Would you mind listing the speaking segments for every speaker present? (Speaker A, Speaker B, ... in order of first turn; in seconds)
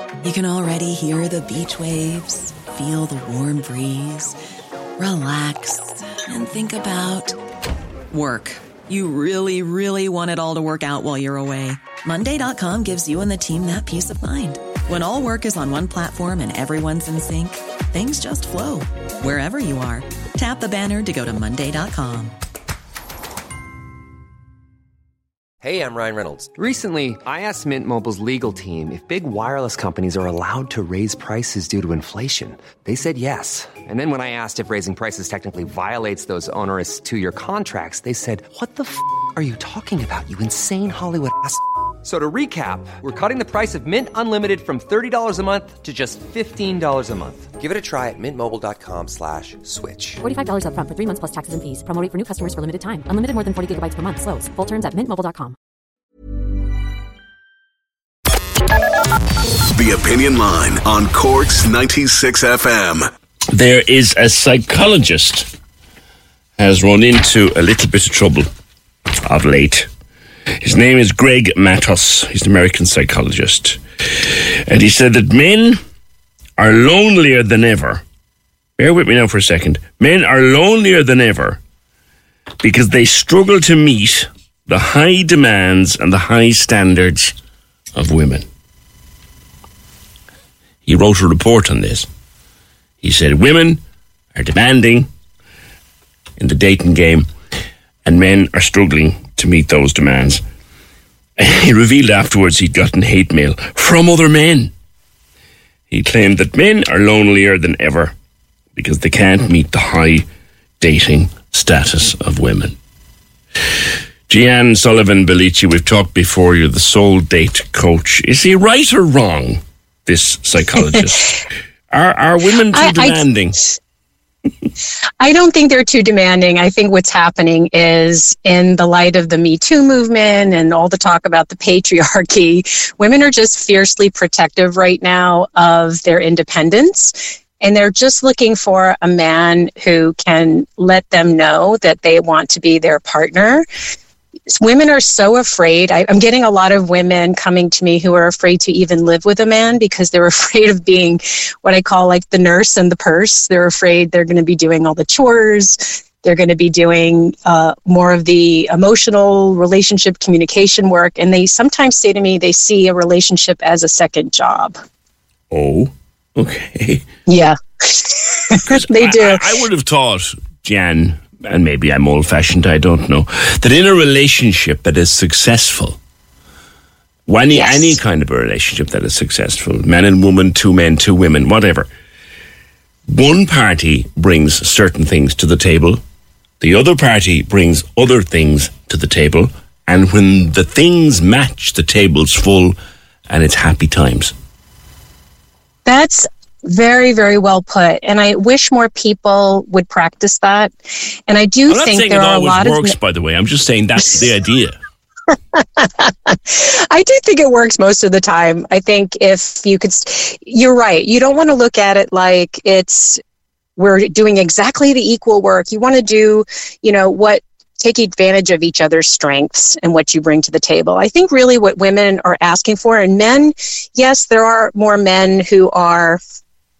Speaker A: 0.2-4.4, 5.0-7.4, 8.1-22.3
Speaker B: 25.6-50.2
Speaker C: 50.2-55.5
Speaker D: 59.8-63.1
Speaker E: 63.5-65.5, 66.6-68.5, 69.2-69.9, 70.6-75.8, 76.6-78.0, 78.8-81.6, 82.6-87.3, 87.9-88.5, 90.8-92.1, 93.0-93.8, 94.3-95.1, 96.4-97.3, 98.0-100.4, 101.4-104.7, 105.9-108.1, 108.7-110.2, 110.8-112.8, 114.3-121.4, 121.9-123.5, 165.5-167.0, 168.7-176.0, 177.3-181.9, 183.1-186.0, 186.6-192.8, 193.3-194.3, 201.7-204.8
Speaker F: 122.7-123.2, 125.2-143.6, 144.5-164.8, 167.3-169.4, 177.5-178.0, 195.8-202.9, 205.5-213.2, 213.8-226.2